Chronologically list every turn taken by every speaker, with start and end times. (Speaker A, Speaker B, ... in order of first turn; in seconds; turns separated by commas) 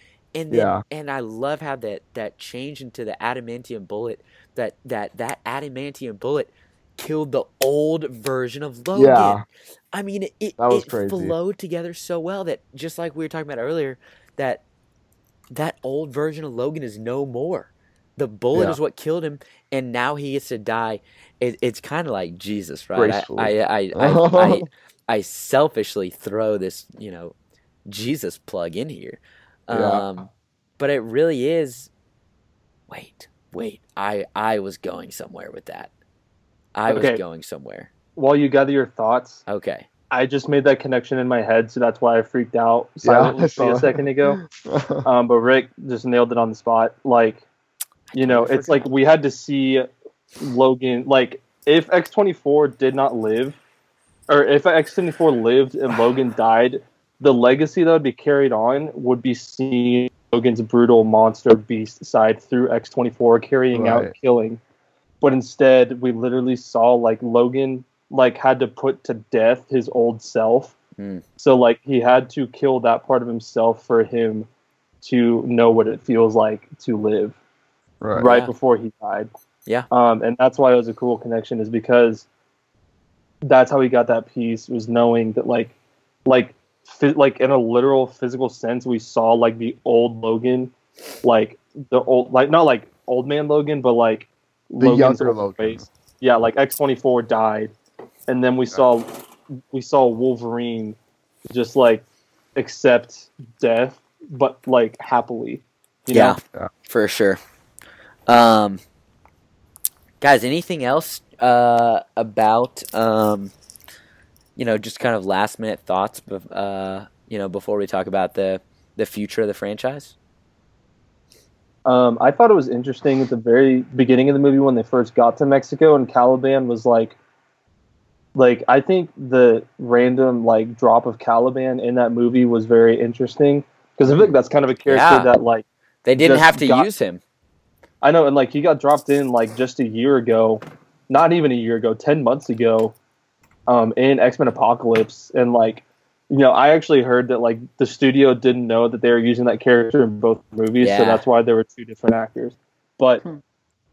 Speaker A: 0.3-9.4, Speaker B: 0.5-0.8, Speaker B: 8.9-9.4, Speaker A: 9.9-14.6, Speaker B: 10.6-11.3, Speaker A: 15.5-27.3, Speaker B: 22.9-24.6, Speaker A: 27.9-30.3, Speaker B: 29.7-30.1, Speaker A: 30.8-31.9, Speaker A: 32.9-35.9, Speaker A: 36.7-37.9, Speaker C: 36.9-37.2, Speaker C: 38.1-39.4, Speaker A: 39.5-39.9, Speaker C: 40.1-44.4, Speaker B: 43.0-45.0, Speaker C: 45.0-47.4, Speaker A: 48.1-48.9, Speaker C: 48.1-49.9, Speaker C: 50.4-53.6, Speaker C: 54.3-64.6, Speaker B: 63.7-64.1, Speaker C: 65.2-70.7, Speaker A: 71.0-71.2, Speaker C: 71.4-74.5, Speaker C: 75.0-77.3, Speaker B: 78.0-78.3, Speaker A: 78.2-78.5, Speaker C: 78.2-79.3, Speaker C: 79.9-82.2, Speaker C: 83.5-85.7, Speaker C: 86.2-90.7, Speaker C: 91.2-97.7, Speaker B: 94.8-95.9, Speaker C: 98.3-101.0, Speaker C: 101.5-102.0, Speaker C: 102.5-106.4, Speaker A: 106.1-107.4, Speaker A: 108.3-108.8, Speaker A: 110.2-113.5, Speaker A: 114.5-120.1, Speaker C: 121.8-127.2, Speaker C: 128.3-135.6, Speaker A: 134.9-135.3, Speaker A: 136.0-137.2, Speaker C: 136.2-136.9, Speaker C: 138.0-142.9, Speaker C: 143.7-153.2, Speaker A: 150.8-151.2